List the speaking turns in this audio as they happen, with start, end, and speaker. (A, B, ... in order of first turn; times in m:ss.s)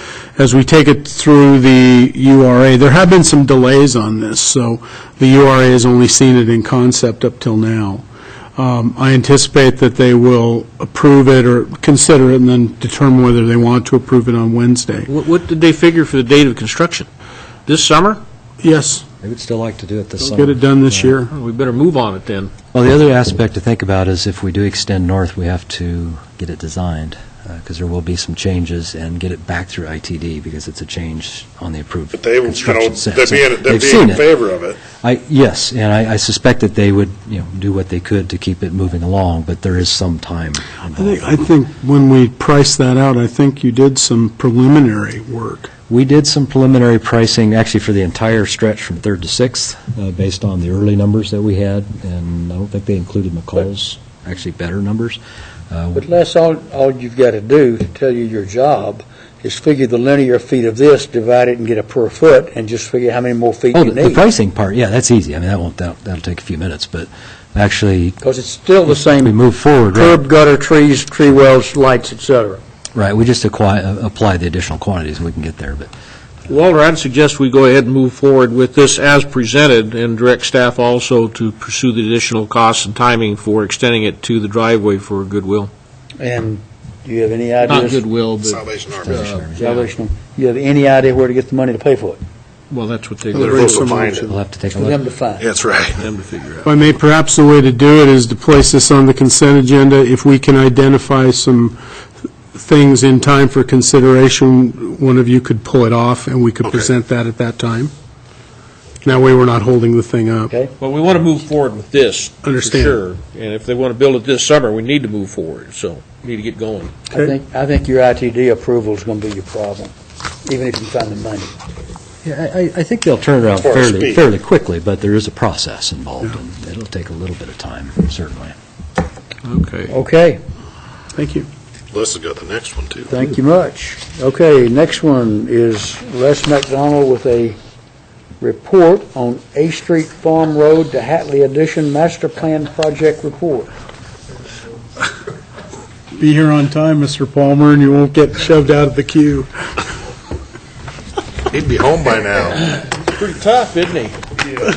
0:00.4-0:08.0 A
0:08.6-0:15.1 A
0:15.1-0:17.1 B
0:17.7-0:18.2 B
0:18.6-0:19.0 A
0:19.2-0:21.2 C
0:20.3-0:21.3 A
0:21.3-0:22.5 B
0:22.7-0:34.3 C
0:32.1-0:34.8 D
0:34.9-0:41.4 C
0:41.0-0:45.7 A
0:45.9-0:55.2 C
0:55.7-0:56.1 C
0:56.0-1:04.2 E
1:03.7-1:08.2 C
1:08.2-1:09.4 E
1:08.9-1:10.2 C
1:09.9-1:12.6 E
1:12.9-1:15.9 C
1:16.5-1:25.7 B
1:26.2-1:28.0 E
1:27.6-1:29.8 B
1:28.4-1:29.2 D
1:29.0-1:29.8 C
1:29.6-1:32.2 E
1:32.7-1:33.8 B
1:33.3-1:34.3 A
1:33.3-1:34.3 D
1:34.3-1:35.0 C
1:34.8-1:35.5 E
1:35.4-1:36.0 D
1:36.0-1:36.7 B
1:36.6-1:41.8 A
1:42.5-1:47.9 A
1:46.6-1:47.0 D
1:49.0-1:50.5 A
1:50.8-1:57.0 B
1:52.4-1:53.0 A
1:57.1-1:59.9 E
2:00.4-2:01.5 E
2:02.2-2:08.6 C
2:03.5-2:04.2 D
2:09.4-2:10.0 B
2:09.9-2:10.4 E
2:11.2-2:11.5 A
2:11.9-2:13.1 D
2:13.1-2:17.6 E
2:18.4-2:23.7 E
2:26.2-2:29.7 A
2:31.5-2:32.7 D
2:32.8-2:34.2 B